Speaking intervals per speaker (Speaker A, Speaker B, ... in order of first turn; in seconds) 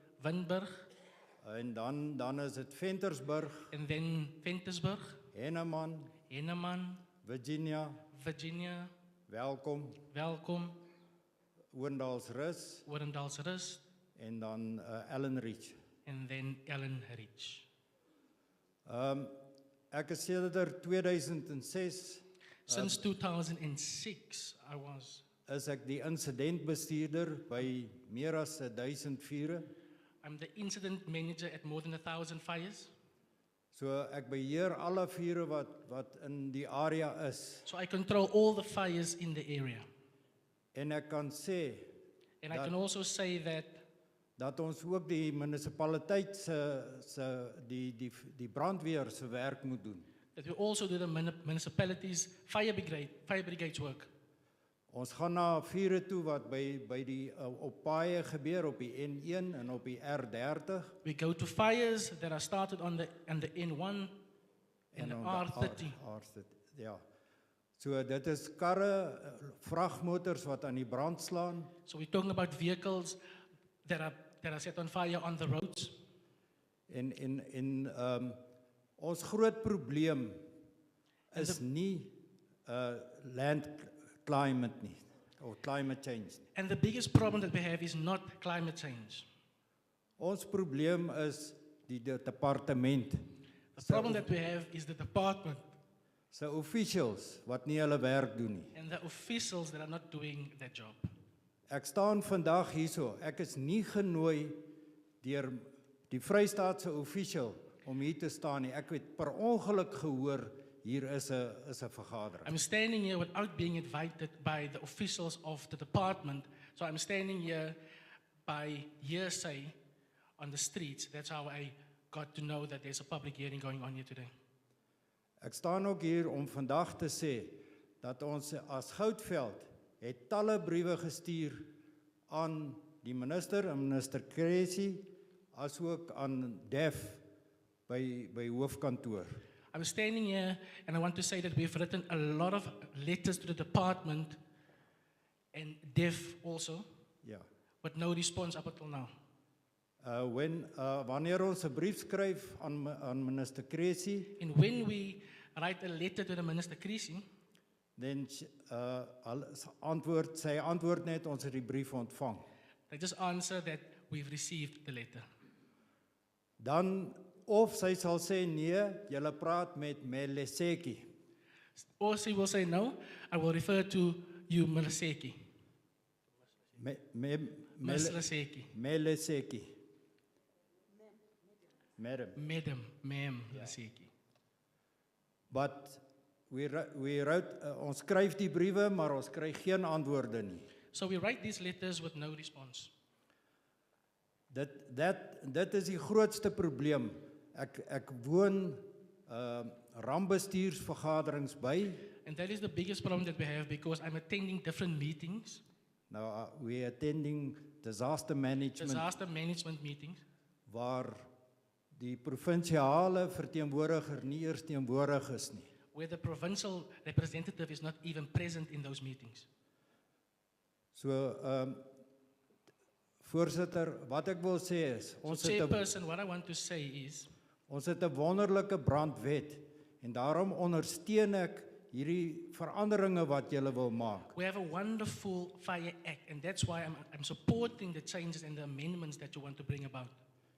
Speaker A: 0.2-0.8, 3.7-5.2, 6.3-7.0, 8.1-8.9, 10.1-10.8, 12.9-13.8, 16.1-17.7, 22.7-25.2, 30.2-32.9, 37.6-39.9, 42.4-43.8, 50.4-54.1, 61.0-64.1, 65.0-66.0, 71.9-73.2, 73.8-76.0, 81.3-81.6, 86.5-89.3, 93.8-95.7, 98.8-101.1, 112.4-117.8, 118.5-119.8, 120.4-124.3, 139.7-144.4, 145.5-146.8, 147.8-149.1, 154.4-157.2, 162.9-165.2, 171.8-175.4, 177.8-178.7, 182.4-184.1, 190.9-192.9, 202.2-205.6, 208.8-210.2, 215.9-219.5, 225.2-227.3, 234.3-240.2
Speaker B: 1.4-3.7, 5.3-6.1, 7.2-8.0, 9.3-10.0, 11.7-12.9, 14.2-15.8, 18.9-19.4, 19.9-23.1, 25.5-29.7, 33.7-37.7, 40.7-41.9, 42.5-42.7, 44.4-50.0, 54.9-61.0, 64.9-67.0, 67.8-71.7, 76.9-78.4, 79.0-80.4, 81.3-86.5, 90.2-93.2, 93.8-94.3, 96.3-98.7, 101.7-104.6, 105.2-112.5, 125.4-131.7, 132.3-137.2, 137.9-139.4, 150.0-154.3, 158.0-162.5, 166.6-171.1, 176.8-179.8, 182.0-182.4, 185.5-190.7, 194.5-202.1, 206.1-209.1, 210.7-211.3, 211.9-215.7, 220.9-221.8, 223.2-225.8, 227.7-234.3